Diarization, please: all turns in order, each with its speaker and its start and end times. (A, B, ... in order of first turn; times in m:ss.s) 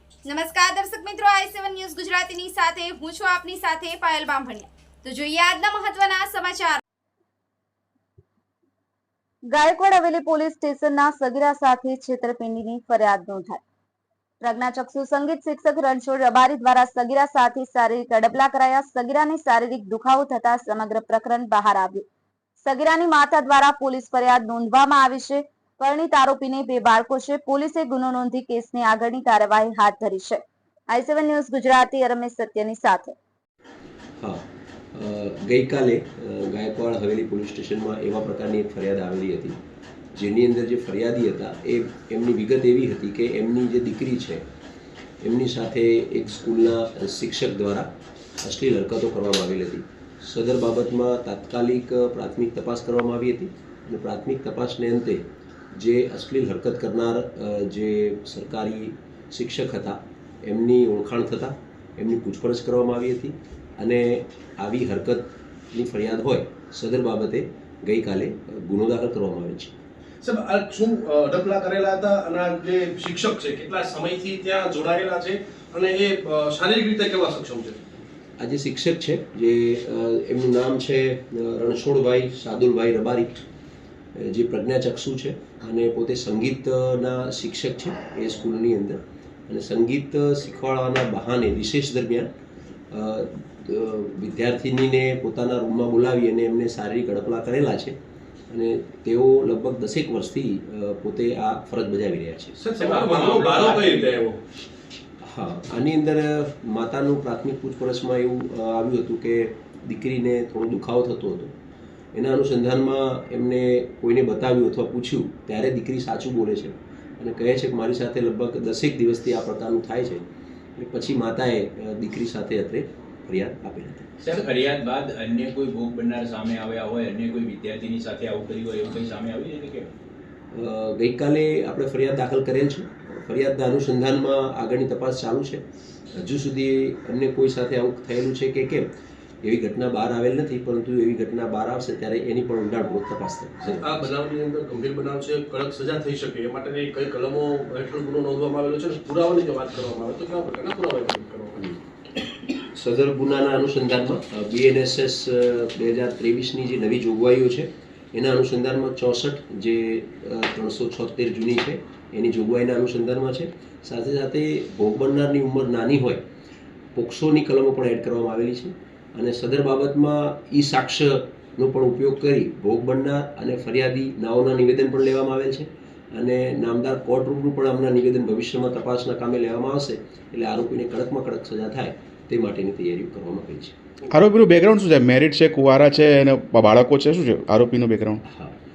0:00.3-0:06.8 A
0:09.5-0:13.6 B
0:14.4-0:22.1 B
0:22.6-0:33.2 B
0:34.9-0:39.6 C
0:40.2-0:44.4 C
0:45.2-0:47.9 C
0:48.4-1:09.7 C
1:10.2-1:17.8 D
1:18.4-1:23.4 C
1:24.2-1:32.3 C
1:32.9-1:38.0 C
1:38.5-1:42.6 C
1:42.6-1:44.4 D
1:42.8-1:44.3 E
1:45.2-1:51.5 C
1:52.1-2:00.2 C
2:00.8-2:04.1 C
2:04.2-2:09.9 E
2:10.5-2:18.9 C
2:19.4-2:24.1 C
2:23.7-2:31.6 D
2:32.7-2:46.2 C
2:47.0-3:03.8 C
3:04.1-3:08.2 F
3:08.3-3:08.6 C